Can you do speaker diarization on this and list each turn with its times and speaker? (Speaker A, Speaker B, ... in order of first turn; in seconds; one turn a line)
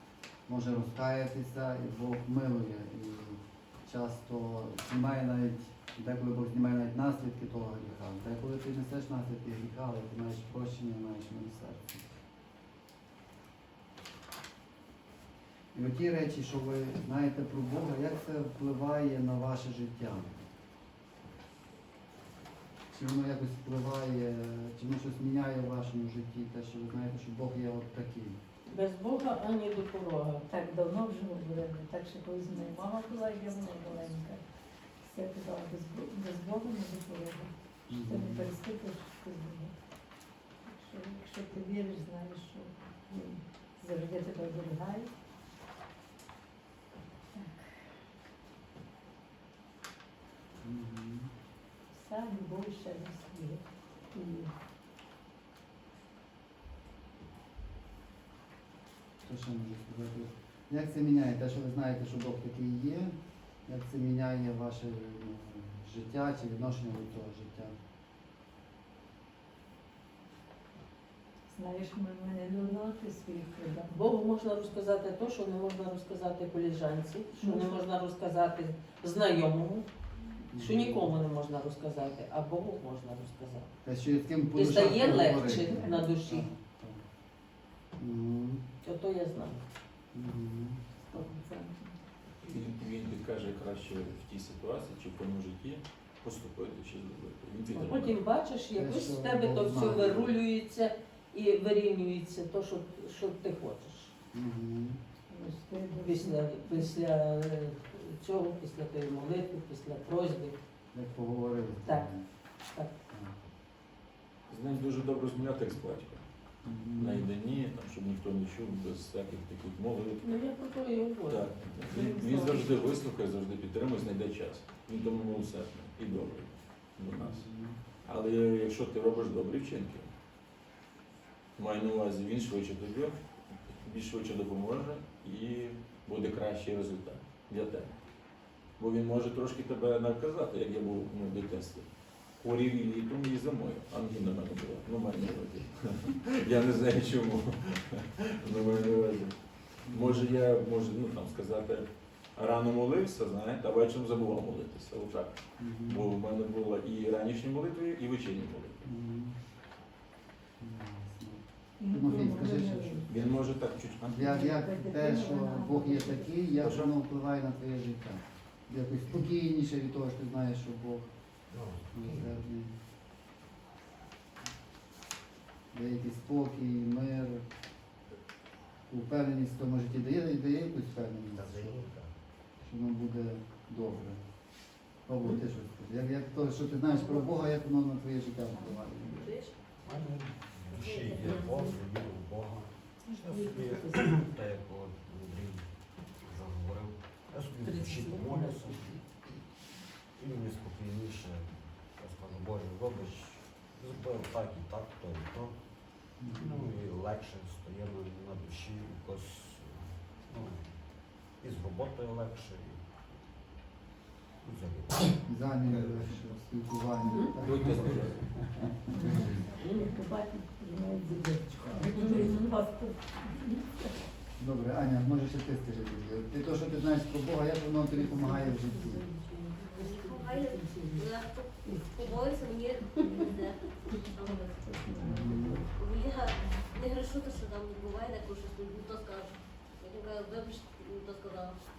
Speaker A: 0.5-12.1
Speaker A: 15.7-20.4
Speaker A: 22.9-28.4
Speaker B: 28.7-30.5
Speaker C: 30.5-34.4
Speaker C: 35.0-39.7
Speaker A: 37.9-38.5
Speaker C: 40.7-45.1
Speaker C: 47.4-47.7
Speaker A: 50.6-51.3
Speaker C: 51.9-54.5
Speaker A: 59.2-63.1
Speaker A: 63.7-67.8
Speaker C: 71.5-73.9
Speaker B: 73.9-79.9
Speaker C: 77.4-77.8
Speaker A: 80.5-81.1
Speaker B: 80.6-83.7
Speaker A: 83.8-87.0
Speaker B: 84.5-86.5
Speaker C: 85.7-86.1
Speaker A: 88.0-88.6
Speaker B: 88.8-89.6
Speaker A: 90.1-90.8
Speaker C: 91.1-91.9
Speaker D: 92.5-98.2
Speaker B: 97.7-104.1
Speaker A: 98.7-100.3
Speaker A: 104.3-105.0
Speaker C: 105.3-107.0
Speaker B: 106.0-110.6
Speaker A: 110.9-112.3
Speaker B: 112.6-112.9
Speaker A: 113.1-113.4
Speaker D: 114.5-116.2
Speaker A: 116.6-117.3
Speaker D: 117.0-120.4
Speaker B: 120.2-122.8
Speaker D: 121.3-127.5
Speaker A: 127.2-127.8
Speaker D: 128.1-130.1
Speaker D: 131.6-133.2
Speaker D: 133.7-137.9
Speaker D: 138.8-149.4
Speaker A: 148.4-149.0
Speaker A: 149.9-150.3
Speaker D: 149.9-158.9
Speaker A: 155.6-156.1
Speaker A: 158.8-159.4
Speaker A: 160.6-163.2
Speaker C: 161.8-163.1
Speaker D: 163.1-164.4
Speaker A: 164.1-171.1
Speaker C: 164.2-166.5
Speaker D: 166.6-166.9
Speaker E: 171.5-172.4
Speaker A: 171.9-172.7
Speaker A: 175.7-177.4
Speaker A: 178.9-181.8
Speaker E: 181.3-182.1
Speaker A: 182.6-184.2
Speaker A: 185.1-189.4
Speaker C: 186.9-187.3
Speaker C: 188.5-188.8
Speaker F: 189.2-189.5
Speaker E: 189.8-195.7
Speaker F: 190.7-191.7
Speaker B: 193.2-194.1
Speaker E: 196.2-199.0
Speaker B: 197.6-198.9
Speaker E: 200.2-205.6
Speaker A: 206.2-206.7
Speaker E: 206.3-210.8
Speaker E: 211.4-213.0
Speaker E: 214.4-216.3
Speaker A: 215.3-218.0
Speaker B: 217.1-217.3
Speaker D: 217.4-218.3
Speaker A: 218.6-219.3
Speaker C: 218.9-223.9
Speaker B: 219.6-219.9
Speaker B: 222.0-222.4
Speaker A: 224.4-229.1
Speaker C: 228.0-231.1
Speaker F: 229.6-234.7
Speaker C: 231.6-235.7
Speaker A: 235.0-235.6
Speaker F: 235.7-241.6